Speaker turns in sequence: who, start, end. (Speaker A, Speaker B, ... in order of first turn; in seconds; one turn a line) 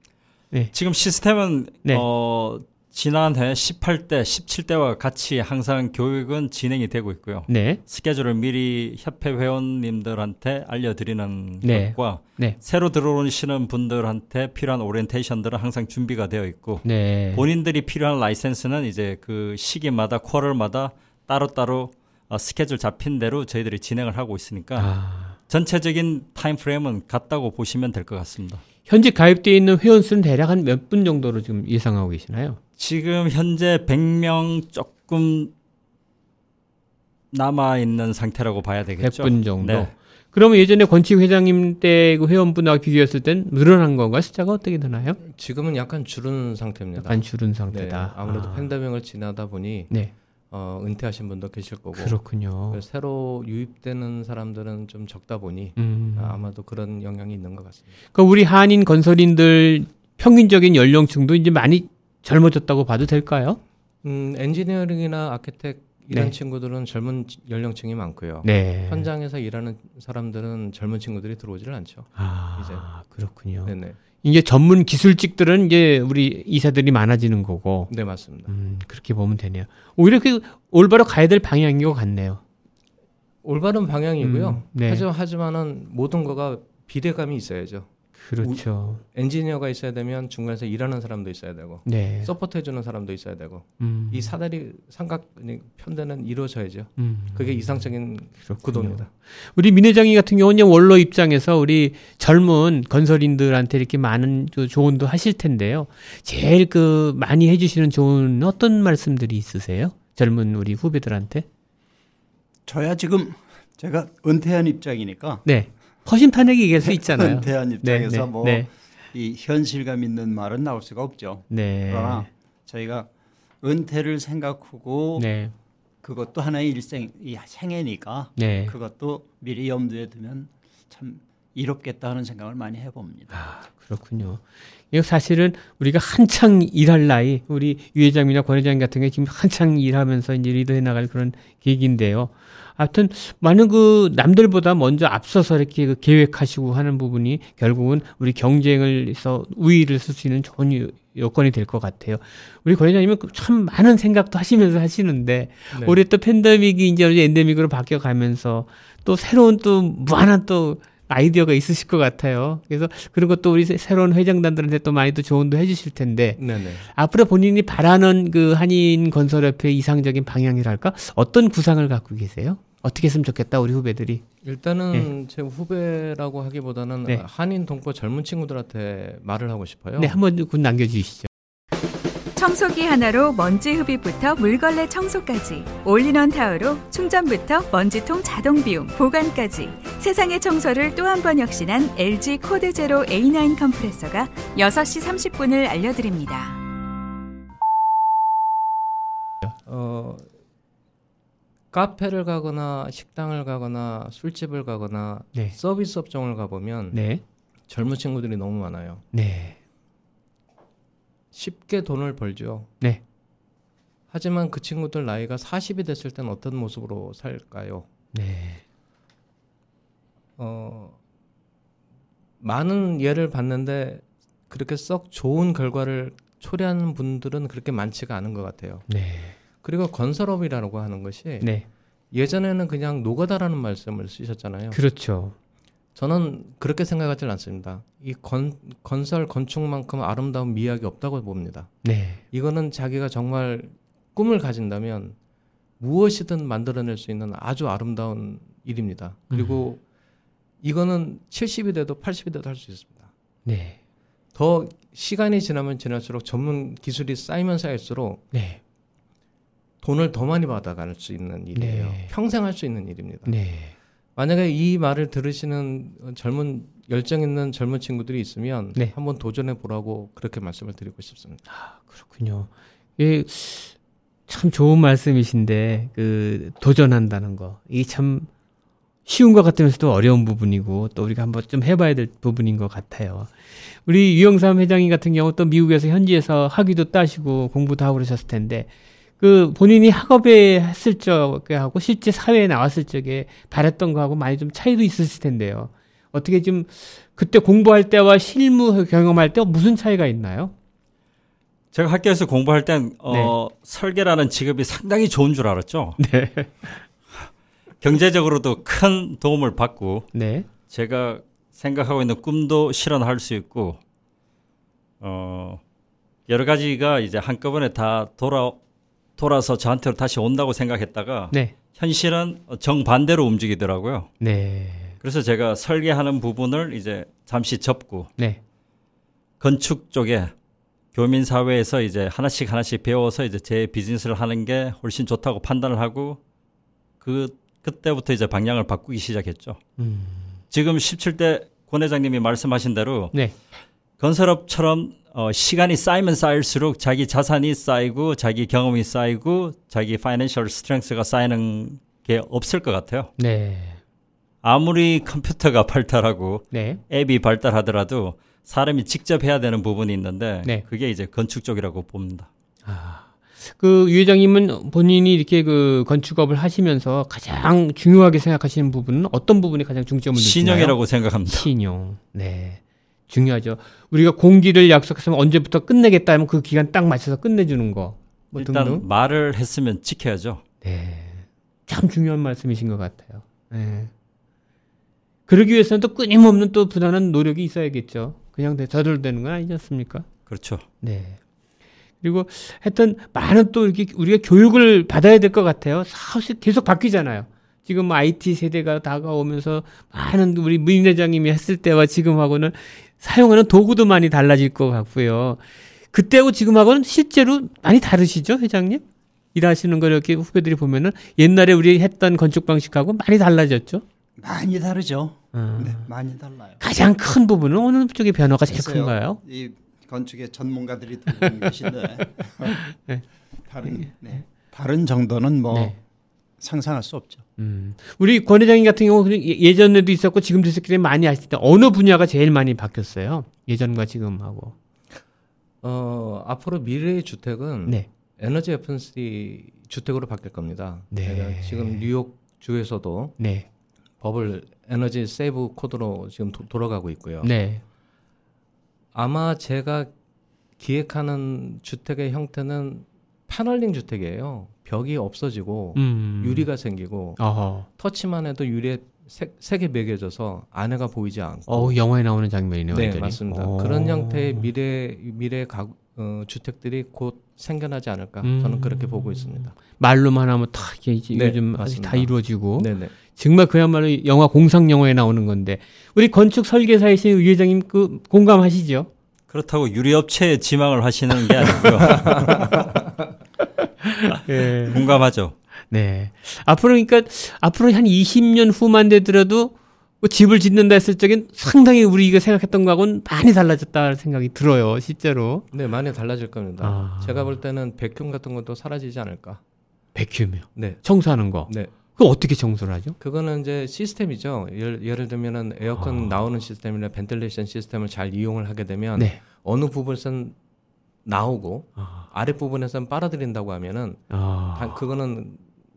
Speaker A: 0.7-28.6
Speaker B: 7.5-7.8
Speaker B: 11.6-12.6
Speaker B: 16.8-17.4
Speaker B: 24.8-25.4
Speaker B: 28.9-32.6
Speaker A: 32.8-35.5
Speaker A: 37.3-39.9
Speaker B: 39.0-45.2
Speaker C: 45.2-50.0
Speaker B: 47.0-48.7
Speaker C: 50.5-58.0
Speaker B: 52.0-52.8
Speaker B: 55.8-56.4
Speaker B: 58.1-63.6
Speaker C: 64.0-72.9
Speaker B: 68.4-69.1
Speaker B: 72.2-77.9
Speaker C: 73.6-74.0
Speaker C: 77.9-78.5
Speaker B: 78.5-82.4
Speaker C: 83.4-99.1
Speaker B: 84.2-85.0
Speaker B: 88.2-89.0
Speaker B: 91.9-92.3
Speaker B: 93.8-94.3
Speaker B: 97.0-111.5
Speaker D: 112.7-115.4
Speaker B: 115.5-118.7
Speaker D: 116.8-123.1
Speaker B: 121.5-122.3
Speaker D: 123.6-125.3
Speaker B: 125.2-125.5
Speaker D: 126.0-133.4
Speaker B: 128.4-128.8
Speaker B: 133.3-174.2
Speaker C: 155.7-156.0
Speaker C: 166.4-166.9
Speaker C: 174.4-180.2
Speaker B: 180.0-181.3
Speaker E: 182.4-196.6
Speaker C: 199.7-200.3
Speaker C: 201.7-207.0
Speaker B: 206.9-207.2
Speaker C: 207.7-209.0
Speaker B: 209.1-209.6
Speaker C: 211.3-212.7
Speaker C: 214.1-217.9
Speaker B: 218.1-218.6
Speaker C: 220.4-221.0
Speaker C: 222.4-228.9
Speaker B: 228.9-229.4
Speaker C: 229.6-231.6
Speaker C: 232.1-234.8
Speaker B: 234.7-235.3
Speaker C: 235.9-245.2
Speaker B: 241.8-242.2
Speaker C: 245.8-249.8
Speaker B: 249.3-249.6
Speaker C: 250.6-253.1
Speaker B: 253.5-253.8
Speaker C: 254.3-258.2
Speaker B: 258.3-258.6
Speaker C: 259.8-263.4
Speaker B: 261.6-262.1
Speaker B: 263.3-263.7
Speaker C: 264.2-271.4
Speaker B: 271.5-273.7
Speaker B: 274.3-278.3
Speaker B: 279.1-300.5
Speaker A: 301.7-306.0
Speaker B: 303.1-303.3
Speaker B: 306.0-306.8
Speaker A: 307.8-310.1
Speaker B: 310.1-310.5
Speaker A: 310.7-313.8
Speaker A: 315.0-315.6
Speaker A: 316.3-318.6
Speaker A: 319.2-324.1
Speaker B: 324.2-325.0
Speaker A: 325.0-328.1
Speaker A: 329.4-330.3
Speaker A: 330.9-336.2
Speaker A: 337.0-339.6
Speaker B: 339.8-340.4
Speaker A: 340.5-343.1
Speaker A: 344.0-353.1
Speaker B: 353.2-353.8
Speaker A: 354.4-362.3
Speaker B: 356.5-356.8
Speaker B: 362.7-378.8
Speaker A: 370.1-371.5
Speaker A: 378.4-380.4
Speaker C: 378.4-378.8
Speaker B: 380.6-383.9
Speaker B: 385.3-390.1
Speaker A: 390.3-390.6
Speaker B: 390.8-391.2
Speaker B: 392.0-408.8
Speaker B: 409.3-413.8
Speaker D: 414.2-416.6
Speaker B: 415.3-415.9
Speaker B: 416.6-419.2
Speaker D: 418.4-422.6
Speaker B: 422.6-423.0
Speaker D: 423.5-425.8
Speaker B: 423.6-423.9
Speaker D: 426.4-427.2
Speaker B: 427.4-434.5
Speaker C: 435.6-443.2
Speaker B: 440.9-441.9
Speaker B: 443.2-443.5
Speaker C: 444.0-447.3
Speaker B: 447.2-447.6
Speaker C: 448.9-449.9
Speaker C: 450.6-457.2
Speaker B: 455.8-456.5
Speaker B: 457.2-457.7
Speaker C: 457.8-461.8
Speaker B: 461.5-464.5
Speaker C: 462.7-469.6
Speaker B: 468.2-478.9
Speaker C: 471.1-472.9
Speaker A: 479.3-482.6
Speaker C: 481.6-482.7
Speaker B: 483.8-484.8
Speaker A: 484.6-485.3
Speaker B: 485.7-495.5
Speaker C: 495.5-499.4
Speaker B: 496.6-497.4
Speaker B: 499.9-503.0
Speaker C: 500.6-500.9
Speaker C: 501.5-501.7
Speaker C: 503.0-510.4
Speaker B: 505.8-506.2
Speaker C: 511.1-515.5
Speaker B: 511.8-512.1
Speaker B: 514.1-514.8